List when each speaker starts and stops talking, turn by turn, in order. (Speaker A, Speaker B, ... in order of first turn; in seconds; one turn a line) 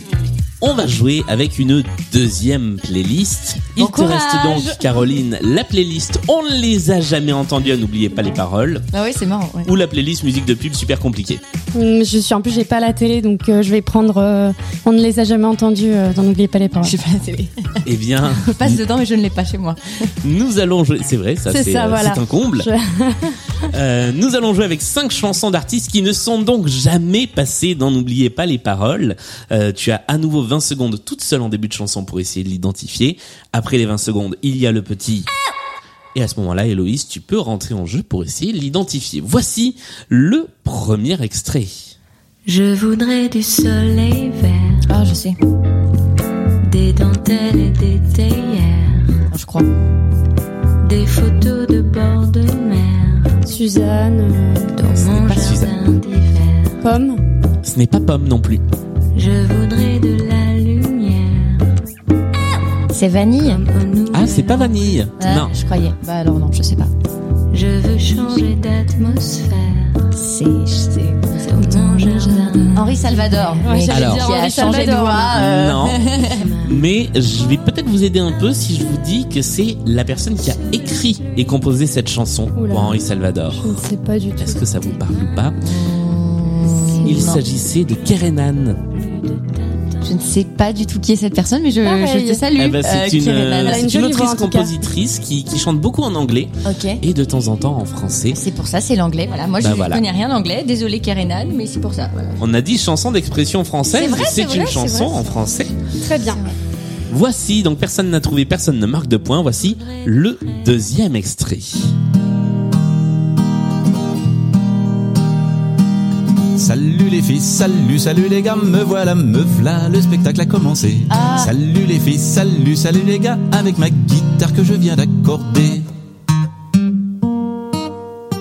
Speaker A: 0.6-8.9
Speaker B: 3.8-5.1
Speaker B: 8.9-9.7
Speaker A: 9.7-11.4
Speaker C: 11.8-17.0
Speaker B: 16.8-20.1
Speaker A: 17.9-18.8
Speaker A: 20.2-22.7
Speaker C: 21.5-23.4
Speaker A: 23.7-35.3
Speaker A: 36.1-41.9
Speaker D: 42.5-44.9
Speaker B: 44.9-45.4
Speaker D: 46.6-49.2
Speaker B: 49.3-49.7
Speaker D: 50.8-53.3
Speaker C: 53.5-54.7
Speaker D: 54.7-56.8
Speaker A: 54.9-55.8
Speaker C: 56.8-57.2
Speaker A: 57.6-58.6
Speaker D: 59.1-61.7
Speaker B: 62.9-63.6
Speaker D: 63.4-65.1
Speaker A: 64.1-65.5
Speaker B: 65.2-66.9
Speaker D: 67.5-70.1
Speaker B: 70.1-76.5
Speaker D: 71.4-73.6
Speaker C: 73.6-75.3
Speaker A: 73.9-74.3
Speaker A: 75.3-76.0
Speaker D: 76.2-76.8
Speaker A: 76.6-83.8
Speaker C: 82.6-83.0
Speaker C: 83.5-84.7
Speaker A: 84.4-85.6
Speaker B: 85.6-87.4
Speaker A: 87.0-88.8
Speaker D: 88.9-90.2
Speaker B: 90.0-93.9
Speaker C: 91.8-92.5
Speaker A: 92.5-98.4
Speaker C: 93.6-94.8
Speaker B: 96.6-97.0
Speaker B: 98.3-102.5
Speaker A: 99.6-100.0
Speaker A: 102.4-105.8
Speaker B: 103.8-105.5
Speaker C: 106.0-106.4
Speaker B: 106.1-106.6
Speaker A: 107.1-111.9
Speaker D: 109.8-110.8
Speaker E: 116.6-125.9
Speaker B: 121.1-121.5